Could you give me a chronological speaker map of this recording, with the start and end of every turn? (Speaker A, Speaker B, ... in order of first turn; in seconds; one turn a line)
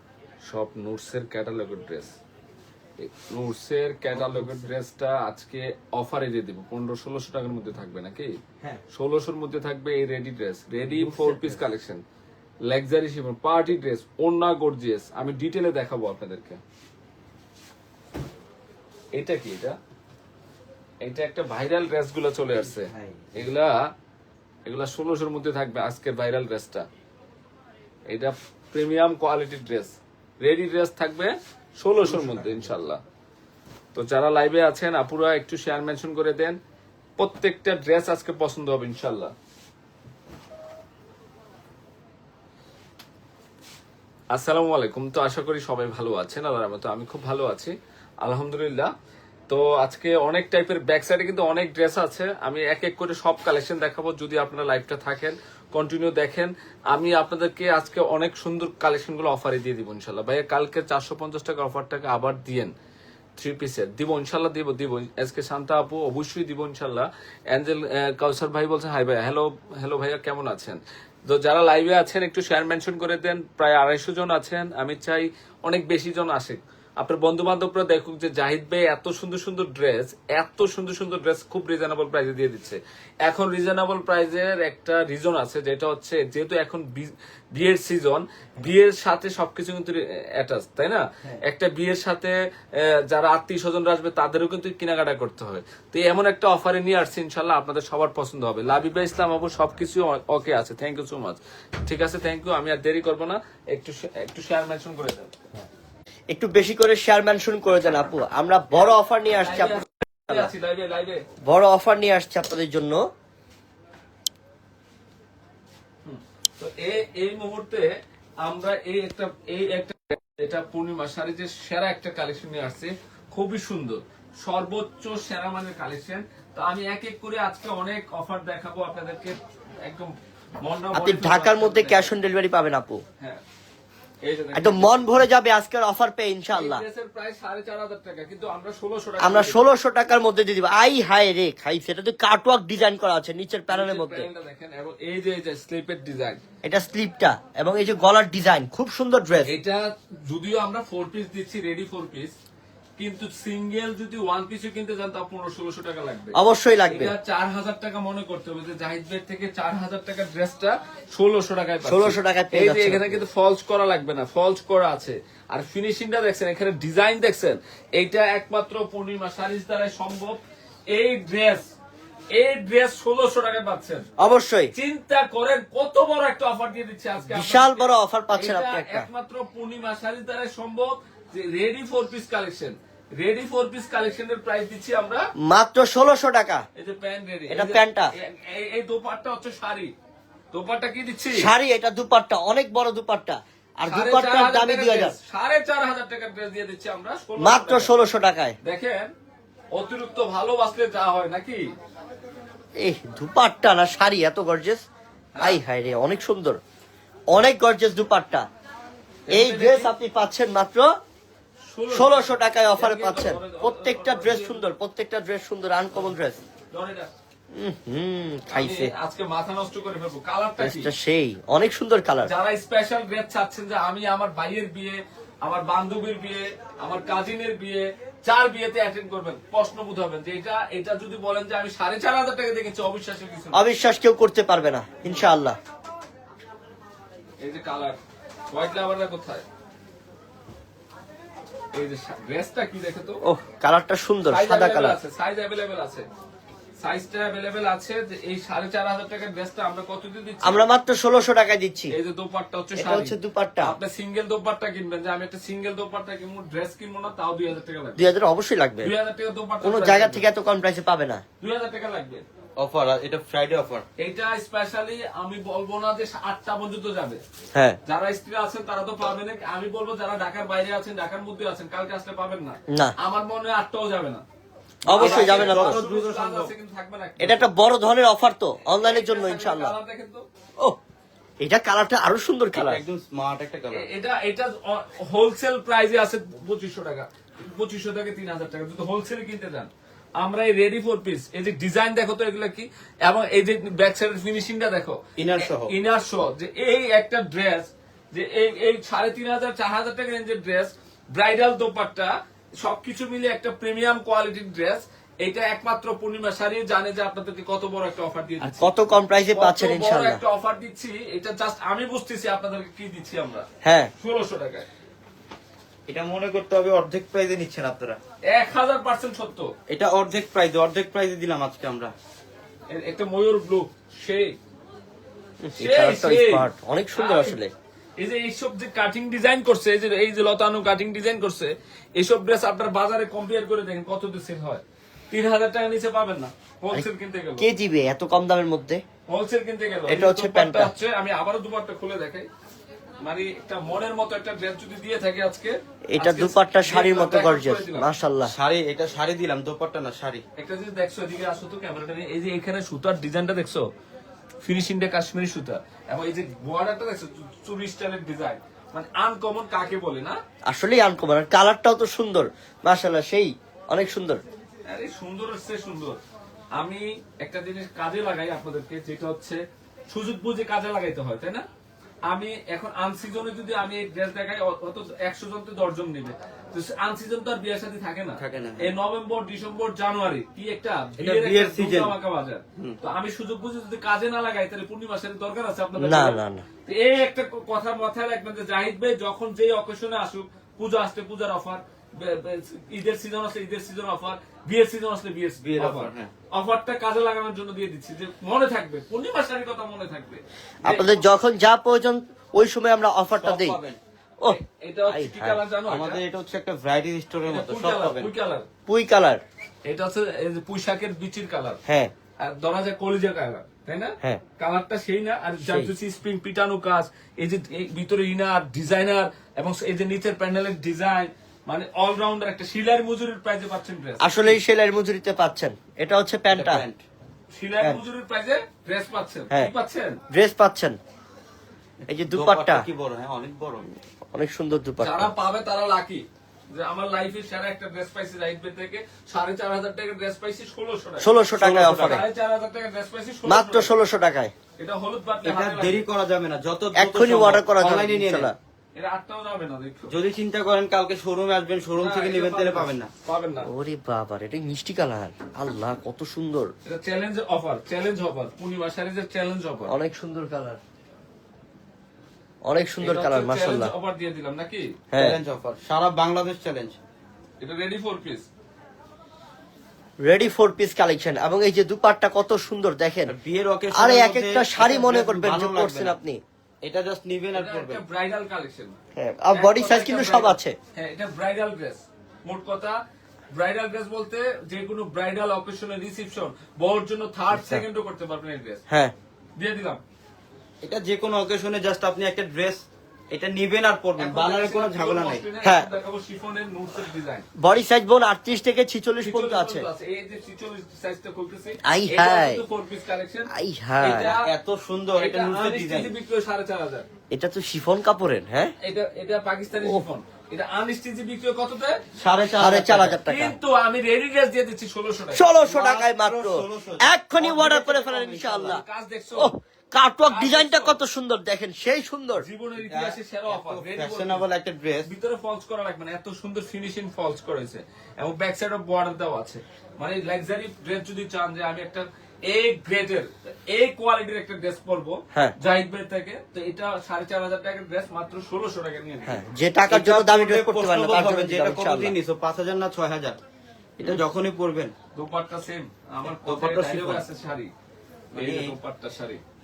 Speaker A: 0.4-2.1
Speaker A: 3.0-8.4
Speaker B: 4.1-4.7
Speaker A: 8.9-12.0
Speaker B: 10.8-11.6
Speaker A: 12.7-16.6
Speaker A: 19.1-19.8
Speaker A: 21.0-23.9
Speaker B: 22.8-23.3
Speaker A: 24.7-26.9
Speaker A: 28.1-33.0
Speaker B: 32.0-32.7
Speaker A: 33.9-36.6
Speaker A: 37.2-39.3
Speaker A: 44.3-48.9
Speaker A: 49.5-62.7
Speaker A: 63.4-105.3
Speaker B: 106.3-110.5
Speaker A: 109.4-111.2
Speaker B: 111.5-113.0
Speaker A: 116.0-132.1
Speaker B: 130.9-133.0
Speaker A: 134.2-135.0
Speaker B: 134.6-136.8
Speaker A: 136.5-139.7
Speaker B: 139.2-144.3
Speaker A: 143.7-146.4
Speaker B: 146.6-149.5
Speaker A: 149.5-152.3
Speaker A: 153.0-156.4
Speaker B: 156.3-157.1
Speaker A: 156.9-170.4
Speaker B: 161.8-163.2
Speaker A: 170.9-171.7
Speaker A: 172.3-174.1
Speaker B: 174.2-174.7
Speaker A: 174.7-185.2
Speaker B: 177.3-179.1
Speaker B: 185.4-186.6
Speaker A: 186.8-189.9
Speaker B: 187.5-188.1
Speaker A: 190.5-191.5
Speaker B: 191.3-195.2
Speaker A: 193.9-197.9
Speaker B: 197.4-198.6
Speaker A: 198.6-199.1
Speaker A: 199.7-201.7
Speaker B: 202.8-204.8
Speaker A: 205.3-205.6
Speaker B: 205.4-206.6
Speaker B: 207.3-208.4
Speaker A: 209.3-209.9
Speaker B: 209.3-210.9
Speaker A: 211.7-214.7
Speaker B: 211.9-216.4
Speaker A: 216.7-217.1
Speaker B: 217.5-218.9
Speaker A: 218.5-220.9
Speaker B: 220.6-222.3
Speaker A: 222.2-233.6
Speaker B: 233.5-235.6
Speaker A: 235.0-235.3
Speaker A: 237.4-238.0
Speaker A: 238.5-239.4
Speaker A: 241.8-243.2
Speaker B: 243.2-245.0
Speaker A: 244.3-246.1
Speaker A: 246.8-250.6
Speaker B: 250.4-251.9
Speaker A: 251.9-258.1
Speaker B: 252.8-253.8
Speaker B: 258.0-258.9
Speaker A: 258.8-260.2
Speaker B: 259.6-261.2
Speaker A: 261.4-262.2
Speaker C: 262.6-263.9
Speaker A: 264.0-267.2
Speaker A: 267.9-274.2
Speaker B: 274.9-275.8
Speaker C: 274.9-276.5
Speaker A: 274.9-277.5
Speaker B: 277.2-279.8
Speaker A: 278.8-280.2
Speaker B: 281.4-282.8
Speaker C: 282.5-283.9
Speaker A: 283.7-308.7
Speaker C: 295.2-295.7
Speaker B: 308.4-310.2
Speaker A: 309.3-313.5
Speaker B: 313.6-313.9
Speaker A: 314.0-314.7
Speaker C: 315.9-318.0
Speaker A: 318.3-319.5
Speaker C: 319.7-321.9
Speaker A: 322.7-324.4
Speaker B: 325.4-327.5
Speaker A: 325.6-327.4
Speaker A: 328.0-337.5
Speaker B: 337.4-338.8
Speaker A: 339.1-342.3
Speaker B: 339.9-340.7
Speaker A: 343.0-347.9
Speaker B: 345.9-348.3
Speaker C: 348.2-350.2
Speaker A: 350.4-353.7
Speaker A: 354.4-360.2
Speaker B: 360.5-364.2
Speaker A: 364.7-366.0
Speaker A: 366.6-371.4
Speaker A: 372.1-401.0
Speaker C: 378.2-378.8
Speaker C: 381.0-382.0
Speaker B: 385.8-386.5
Speaker C: 395.4-396.1
Speaker B: 400.6-403.6
Speaker C: 403.2-403.8
Speaker B: 404.2-405.4
Speaker A: 404.3-406.0
Speaker C: 405.7-408.1
Speaker A: 407.3-408.5
Speaker B: 408.7-409.2
Speaker A: 409.7-411.6
Speaker B: 411.7-411.9
Speaker A: 412.2-424.4
Speaker B: 415.4-415.7
Speaker B: 424.0-426.6
Speaker C: 426.3-426.8
Speaker A: 427.3-430.0
Speaker B: 430.1-430.8
Speaker B: 431.9-432.6
Speaker C: 431.9-433.7
Speaker B: 434.1-435.1
Speaker A: 434.8-441.1
Speaker B: 441.0-442.0
Speaker C: 441.4-442.0
Speaker A: 441.6-443.7
Speaker B: 443.3-444.3
Speaker A: 444.6-445.8
Speaker C: 445.2-448.3
Speaker B: 446.8-448.4
Speaker A: 448.8-449.9
Speaker C: 449.9-452.9
Speaker A: 451.8-453.5
Speaker B: 453.4-456.5
Speaker A: 456.7-459.8
Speaker B: 459.7-460.6
Speaker B: 462.4-463.7
Speaker A: 462.8-464.7
Speaker B: 464.9-465.2
Speaker C: 465.0-466.8
Speaker A: 467.4-468.3
Speaker B: 470.0-473.1
Speaker C: 473.1-476.0
Speaker B: 473.7-476.2
Speaker C: 476.6-477.8
Speaker A: 477.3-478.7
Speaker B: 478.9-480.6
Speaker A: 479.3-482.8
Speaker A: 483.3-488.6
Speaker B: 487.3-487.6
Speaker B: 488.7-488.9
Speaker A: 489.4-489.8
Speaker C: 490.6-495.2
Speaker A: 494.0-497.3
Speaker B: 495.4-495.7
Speaker B: 497.4-499.7
Speaker A: 499.0-504.3
Speaker B: 501.6-502.4
Speaker B: 503.3-504.1
Speaker C: 504.0-505.9
Speaker A: 505.0-506.9
Speaker B: 507.1-508.5
Speaker A: 508.6-511.8
Speaker C: 512.0-513.0
Speaker B: 512.4-513.4
Speaker A: 513.1-515.2
Speaker B: 515.1-518.6
Speaker C: 515.4-518.5
Speaker A: 518.1-519.3
Speaker B: 519.2-522.3
Speaker A: 520.1-520.8
Speaker A: 522.2-524.3
Speaker C: 522.6-524.9
Speaker A: 524.9-539.2
Speaker B: 539.1-542.0
Speaker C: 539.7-543.2
Speaker C: 543.8-544.7
Speaker A: 545.0-547.5
Speaker C: 546.1-547.0
Speaker C: 548.1-548.6
Speaker A: 548.1-549.2